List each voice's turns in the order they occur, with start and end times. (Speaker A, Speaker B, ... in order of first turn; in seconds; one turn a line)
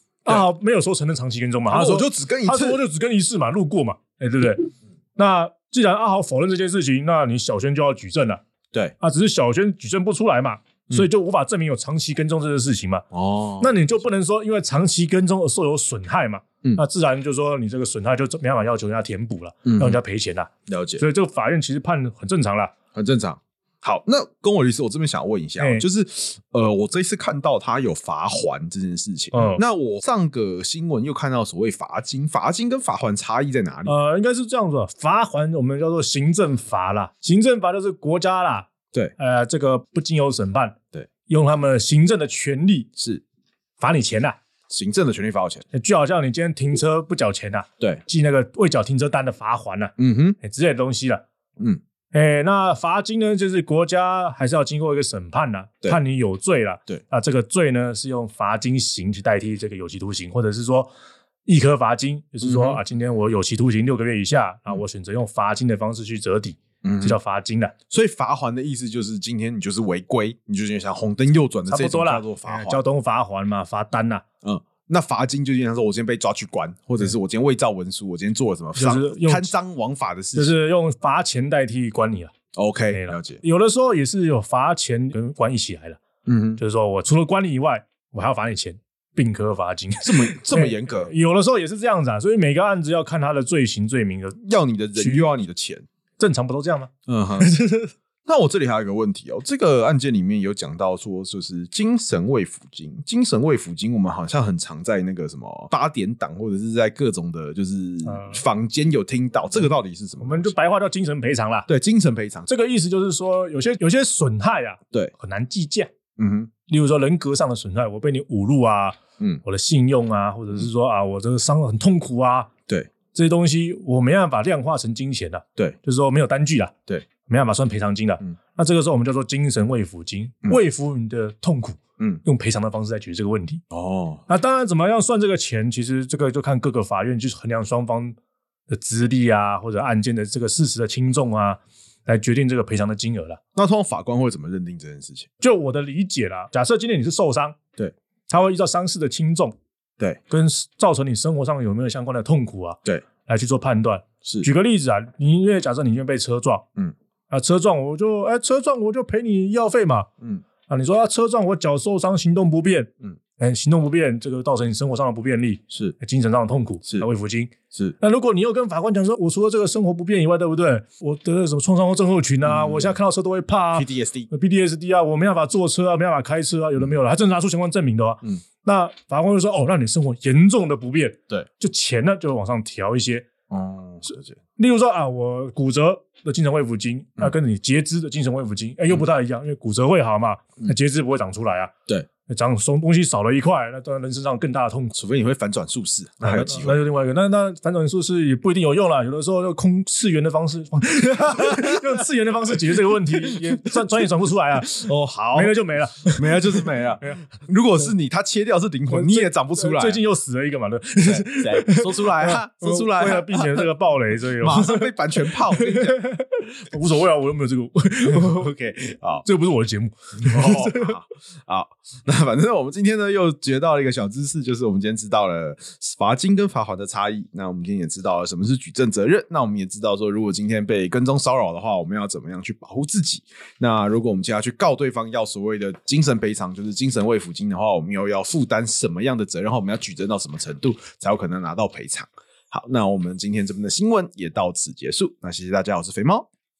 Speaker A: 0.2-8.4
Speaker B: 1.7-2.8
Speaker A: 9.0-13.1
Speaker B: 13.1-13.8
Speaker A: 13.6-22.7
Speaker B: 19.6-20.0
Speaker B: 20.7-21.0
Speaker B: 22.9-34.0
Speaker A: 25.6-25.9
Speaker A: 29.3-29.6
Speaker A: 33.9-40.8
Speaker A: 41.3-42.9
Speaker B: 43.0-43.2
Speaker A: 43.8-44.4
Speaker B: 44.7-45.6
Speaker A: 45.7-51.2
Speaker B: 50.0-50.4
Speaker A: 52.1-60.9
Speaker A: 61.5-67.7
Speaker B: 62.4-62.8
Speaker B: 66.8-67.2
Speaker B: 67.9-72.8
Speaker A: 71.7-74.2
Speaker B: 74.4-80.5
Speaker A: 78.8-79.5
Speaker A: 80.3-82.3
Speaker B: 82.5-83.4
Speaker A: 82.9-86.0
Speaker B: 86.2-86.6
Speaker A: 86.6-94.4
Speaker B: 90.0-91.1
Speaker B: 94.4-95.8
Speaker A: 95.0-95.3
Speaker A: 96.2-97.9
Speaker B: 97.1-97.5
Speaker B: 98.2-110.5
Speaker A: 108.0-108.4
Speaker A: 110.2-111.7
Speaker B: 111.7-112.5
Speaker A: 112.5-115.9
Speaker B: 116.2-116.5
Speaker A: 116.7-122.5
Speaker A: 123.1-126.7
Speaker A: 127.2-133.6
Speaker B: 133.7-134.2
Speaker A: 134.3-138.1
Speaker A: 138.7-143.4
Speaker B: 143.5-145.3
Speaker A: 145.4-147.6
Speaker A: 148.3-149.5
Speaker A: 150.3-156.7
Speaker A: 157.3-160.1
Speaker A: 160.7-183.2
Speaker B: 172.4-172.9
Speaker B: 173.7-174.3
Speaker B: 183.5-184.4
Speaker A: 184.6-191.7
Speaker A: 192.3-194.9
Speaker B: 194.9-196.8
Speaker A: 196.2-207.2
Speaker B: 204.6-205.5
Speaker B: 206.1-210.0
Speaker A: 208.9-218.5
Speaker B: 211.0-213.7
Speaker B: 214.4-216.0
Speaker B: 218.1-219.2
Speaker A: 219.2-220.9
Speaker B: 220.2-246.3